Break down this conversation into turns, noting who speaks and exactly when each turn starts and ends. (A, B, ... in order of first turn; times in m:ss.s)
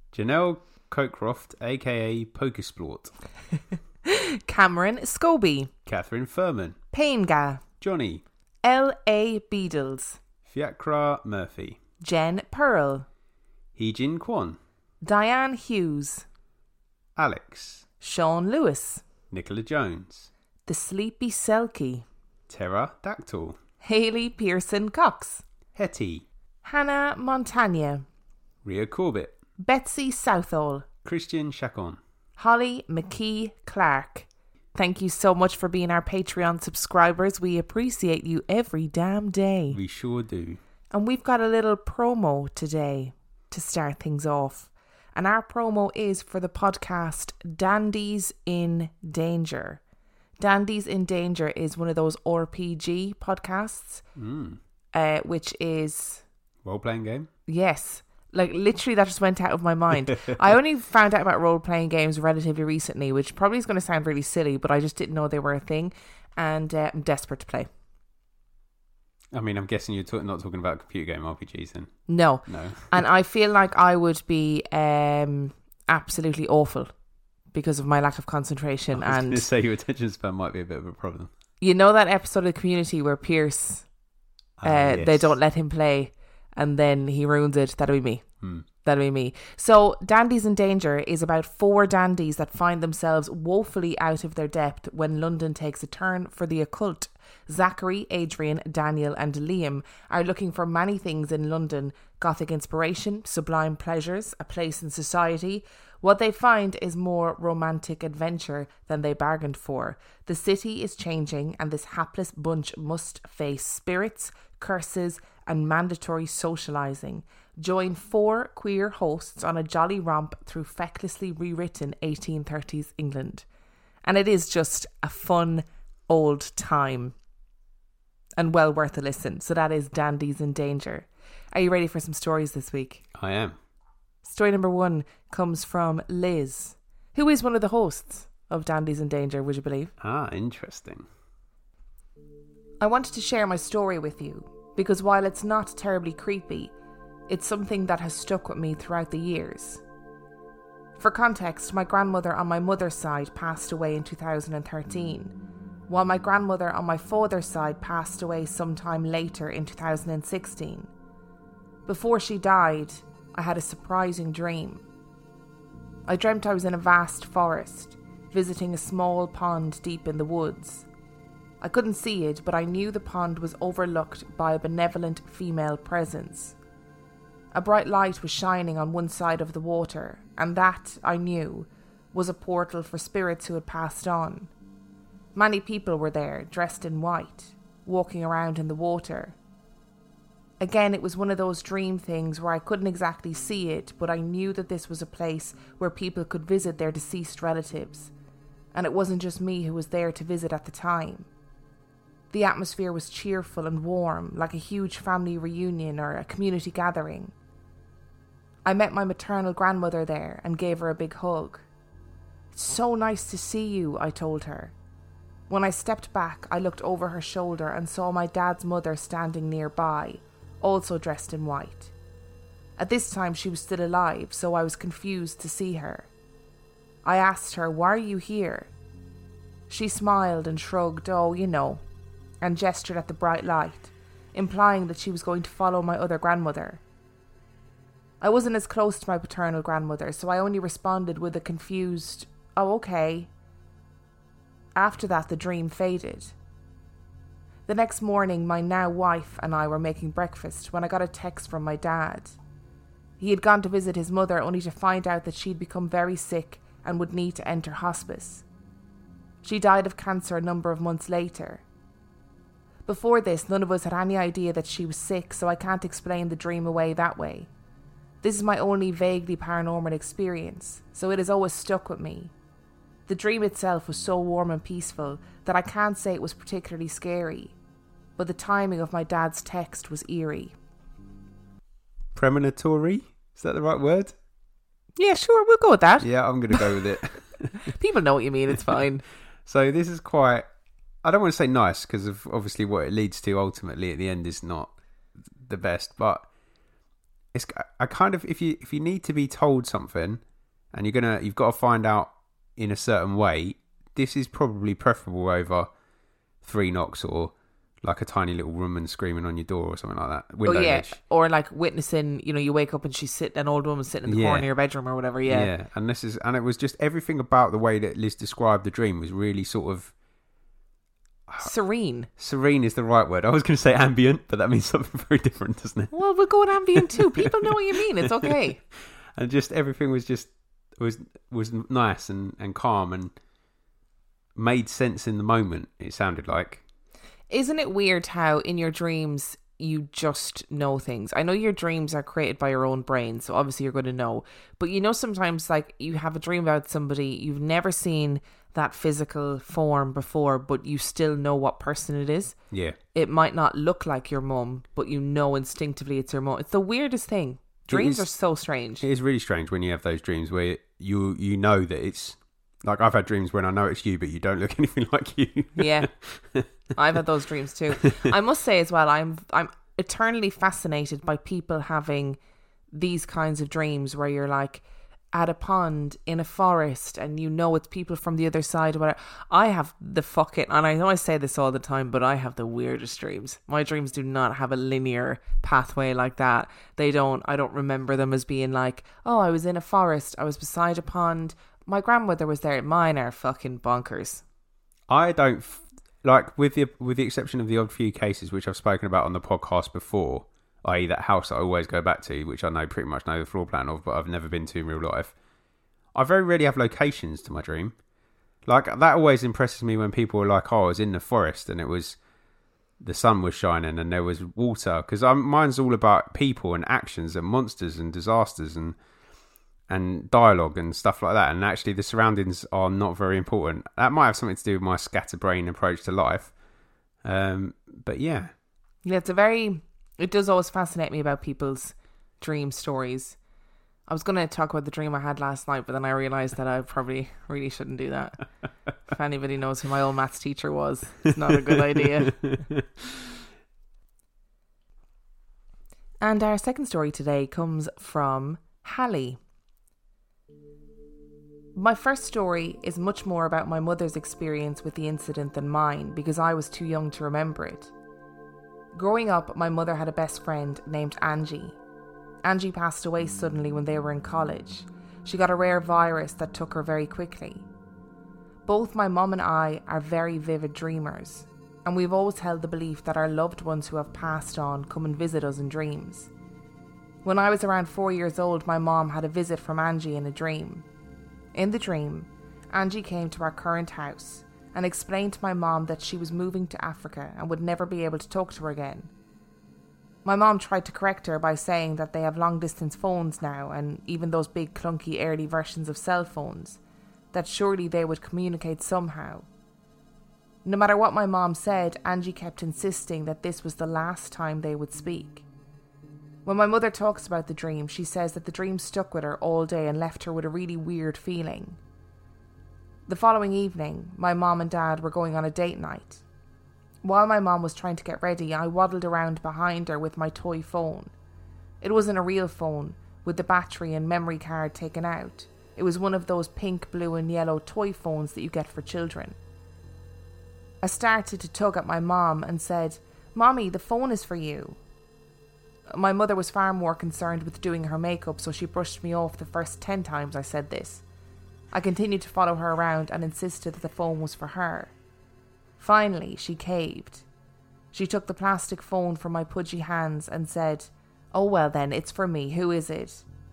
0:00.1-0:03.1 A
0:04.0-0:05.7 B
0:05.8-0:06.8 A
0:06.9-0:07.6 B
0:07.8-0:08.2 A
0:08.6-0:10.2 B
0:10.4-0:11.8 A
0:12.0-0:13.0 B
0:13.8-0:14.6 A
0:15.0-0:16.2 B
0:17.2-0:17.8 A
0:18.0-0:19.0 B
0:19.3-0:20.3 A
0:20.6-0:22.0 B
0:22.5-0:23.6 A
0:23.8-0:25.4 B
0:25.7-0:26.2 A
0:26.6-0:28.0 B
0:28.6-0:29.4 A
0:29.6-0:30.8 B
0:31.0-0:32.0 A
0:32.4-0:39.8 B
0:39.7-0:40.6 A
0:40.9-0:49.8 B
0:50.4-0:54.0 B
0:54.2-0:54.6 A
0:54.9-0:56.2 B
0:56.6-0:57.3 A
0:57.5-1:07.7 B
1:00.1-1:00.4 A
1:09.3-1:13.0 A
1:12.1-1:16.9 B
1:17.5-1:19.4 B
1:18.9-1:21.3 A
1:21.6-1:23.8 B
1:24.6-1:25.3 A
1:24.6-1:28.2 B
1:28.8-2:03.4 B
2:04.0-2:07.1 B
2:08.4-2:13.0 B
2:13.1-2:13.6 A
2:14.2-2:19.9 B
2:20.0-2:21.0 A
2:22.8-2:26.7 B
2:27.3-2:29.8 B
2:31.0-2:35.3 B
2:35.9-2:40.9 B
2:41.8-2:44.8 B
2:46.1-2:50.9 B
2:51.6-2:56.5 B
2:57.5-3:04.5 B
3:05.3-3:09.4 B
3:10.6-3:18.1 B
3:18.7-3:21.3 B
3:22.3-3:27.3 B
3:28.6-3:31.7 B
3:32.5-3:34.7 B
3:35.5-3:41.9 B
3:42.8-3:46.1 B
3:47.0-3:48.7 B
3:49.7-3:51.8 B
3:52.4-3:56.8 B
3:58.2-4:03.3 B
4:04.8-4:06.3 B
4:07.6-4:12.4 B
4:13.2-4:18.4 B
4:19.4-4:21.6 B
4:22.8-4:27.5 B
4:28.2-4:32.3 B
4:33.1-4:37.5 B
4:38.2-4:40.5 B
4:42.1-4:44.1 A
4:45.0-4:46.8 B
4:46.0-4:47.7 A
4:47.5-4:49.0 B
4:49.4-4:50.4 A
4:51.0-4:54.7 A
4:55.4-4:56.3 A
4:57.3-5:00.2 A
5:00.7-5:05.7 A
5:06.4-5:11.0 A
5:10.4-5:15.5 B
5:14.1-5:14.4 A
5:15.3-5:19.9 A
5:21.4-5:22.1 B
5:22.2-5:25.9 A
5:25.9-5:28.6 B
5:26.7-5:27.3 A
5:28.2-5:33.1 A
5:34.4-5:36.6 A
5:37.3-5:52.3 B
5:52.5-5:52.8 A
5:52.9-5:58.8 B
5:57.7-5:58.1 A
5:58.8-6:06.5 A
6:05.6-6:05.9 B
6:06.7-6:12.2 B
6:12.7-6:34.2 B
6:34.9-6:45.1 A
6:45.9-6:47.8 A
6:48.4-6:52.0 A
6:52.8-6:58.8 A
6:59.7-7:06.3 A
7:07.0-7:08.3 A
7:08.8-7:13.2 B
7:13.9-7:18.2 B
7:18.9-7:22.2 B
7:22.0-7:23.0 A
7:26.0-7:29.2 B
7:31.5-7:37.7 B
7:38.7-7:41.6 B
7:42.2-7:47.5 B
7:48.4-7:56.1 B
7:57.0-8:00.6 B
8:01.3-8:08.9 B
8:10.0-8:16.6 B
8:17.1-8:19.3 B
8:20.4-8:25.2 B
8:26.2-8:31.6 B
8:32.9-8:36.0 B
8:36.8-8:40.9 B
8:41.6-8:49.2 B
8:50.6-8:54.6 B
8:55.7-9:00.8 B
9:01.5-9:04.7 B
9:05.6-9:07.0 B
9:07.7-9:13.0 B